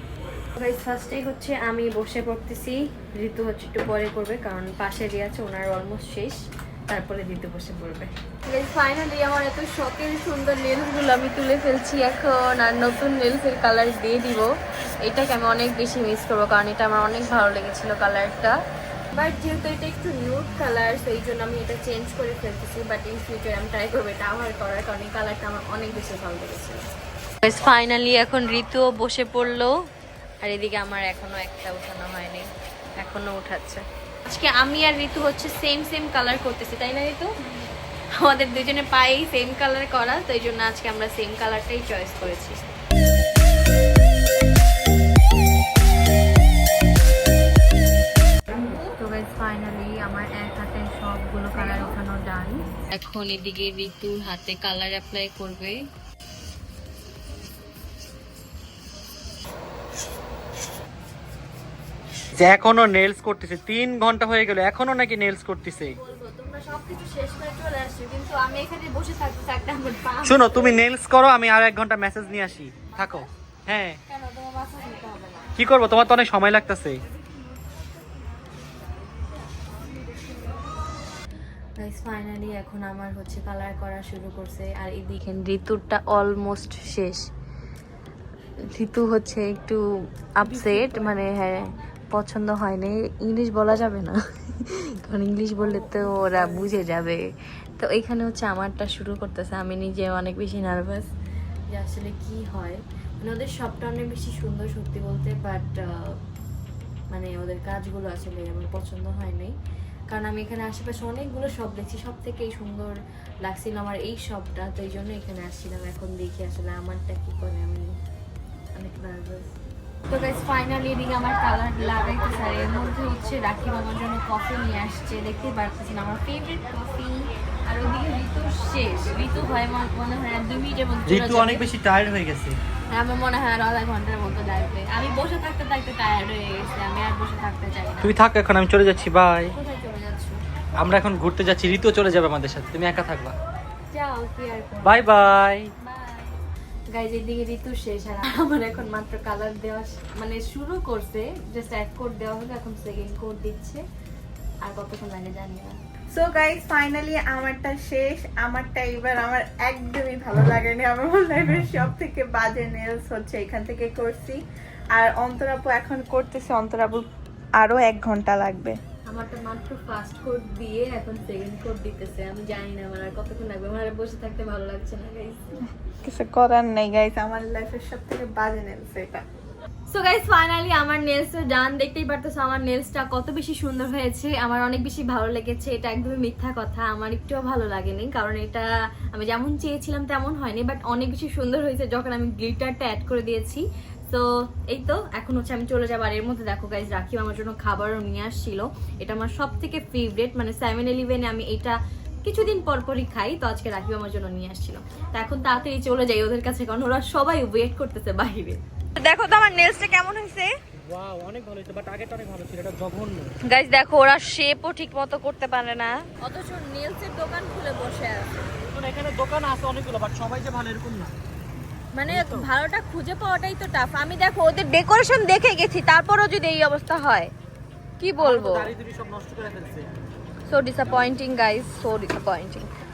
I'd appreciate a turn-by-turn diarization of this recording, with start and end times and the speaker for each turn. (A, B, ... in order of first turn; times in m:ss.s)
0:00.6-0:18.6 A
0:19.1-0:26.8 A
0:27.4-0:29.7 A
0:30.4-0:37.4 A
0:38.2-0:42.6 A
0:48.5-0:55.8 A
1:02.4-1:06.0 B
1:05.9-1:10.8 A
1:10.2-1:14.0 B
1:14.1-1:15.5 A
1:15.6-1:17.0 B
1:21.8-1:27.3 A
1:28.7-1:37.2 A
1:37.8-1:41.1 A
1:41.7-1:46.2 A
1:47.1-1:49.6 A
1:50.1-1:57.9 A
1:58.7-1:59.5 A
2:00.1-2:11.6 A
2:11.1-2:12.6 B
2:12.9-2:18.2 A
2:18.0-2:19.5 B
2:19.5-2:20.4 A
2:20.8-2:23.4 B
2:23.9-2:26.4 A
2:24.8-2:25.7 B
2:26.9-2:33.8 A
2:34.6-2:35.8 A
2:36.1-2:44.4 C
2:44.9-2:47.1 C
2:47.6-2:48.8 C
2:49.1-2:55.4 A
2:56.0-2:59.2 C
2:59.9-3:30.5 A
3:30.9-3:33.3 B
3:33.4-3:38.3 A
3:38.6-3:41.1 B
3:41.9-3:47.3 A
3:42.1-3:42.5 B
3:48.0-3:48.7 A
3:48.2-3:49.9 B
3:50.5-3:52.7 A